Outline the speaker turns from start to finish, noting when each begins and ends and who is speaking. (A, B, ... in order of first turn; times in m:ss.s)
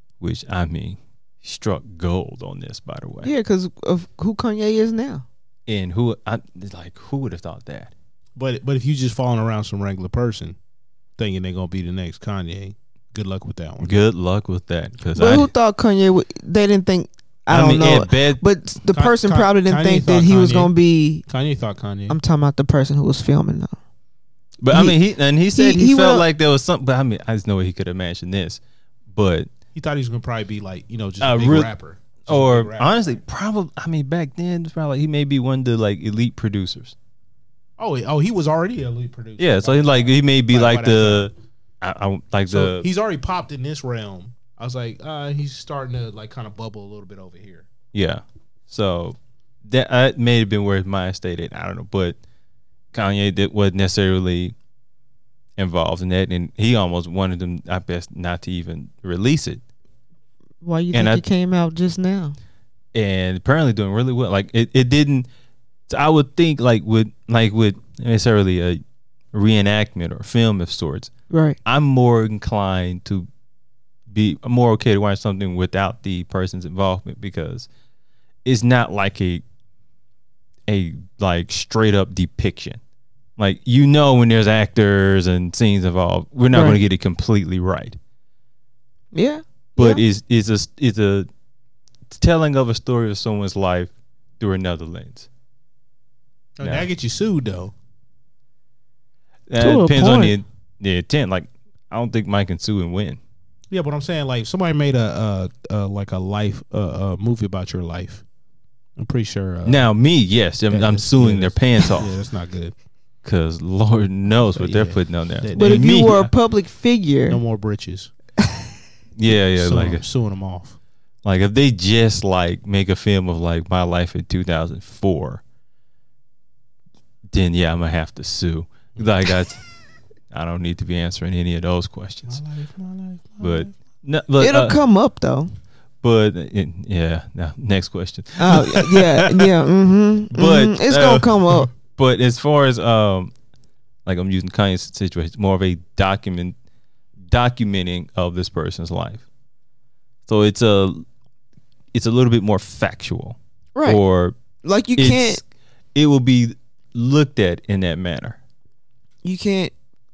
0:00.2-0:03.3 A
0:03.2-0:05.2 B
0:05.7-0:07.9 A
0:08.4-0:10.6 C
0:11.2-0:14.0 C
0:13.8-0:15.5 A
0:15.2-0:21.2 B
0:17.5-0:18.4 A
0:18.9-0:20.7 C
0:21.2-0:22.2 C
0:22.1-0:23.8 B
0:24.6-0:28.6 A
0:24.7-0:25.0 B
0:25.5-0:26.2 B
0:29.1-0:29.5 A
0:29.7-0:33.2 C
0:31.2-0:31.7 A
0:32.3-0:37.0 A
0:37.8-0:41.3 C
0:39.4-0:42.9 A
0:42.5-0:47.7 C
0:47.9-0:52.2 A
0:52.9-0:54.5 A
0:55.6-0:59.6 A
1:00.6-1:02.4 B
1:00.9-1:01.2 A
1:02.9-1:05.3 A
1:05.9-1:08.8 A
1:09.3-1:11.1 A
1:11.3-1:11.6 B
1:11.6-1:13.3 A
1:14.1-1:17.7 A
1:18.4-1:19.4 A
1:20.7-1:22.8 A
1:23.4-1:28.0 A
1:26.5-1:26.8 B
1:29.1-1:30.0 B
1:29.8-1:31.3 A
1:32.1-1:35.3 A
1:36.6-1:37.7 C
1:36.6-1:36.9 A
1:39.5-1:43.2 A
1:39.6-1:40.4 B
1:43.7-1:48.2 C
1:49.0-1:49.9 C
1:49.6-1:52.1 A
1:50.7-1:52.7 C
1:53.2-1:56.3 A
1:54.5-1:56.0 C
1:55.5-1:57.4 B
1:57.3-1:58.1 C
1:59.2-2:00.0 A
1:59.5-2:00.8 C
2:01.2-2:05.4 A
2:07.3-2:09.6 A
2:10.3-2:12.4 A
2:12.3-2:13.7 C
2:13.4-2:14.8 A
2:14.4-2:15.5 B
2:16.0-2:19.5 A
2:18.4-2:21.7 B
2:20.3-2:23.3 A
2:24.0-2:26.6 A
2:27.3-2:29.2 A
2:30.2-2:31.0 A
2:31.9-2:34.4 A
2:33.7-2:34.0 B
2:34.6-2:35.4 B
2:35.0-2:35.4 A
2:35.9-2:38.4 A
2:39.2-2:39.7 B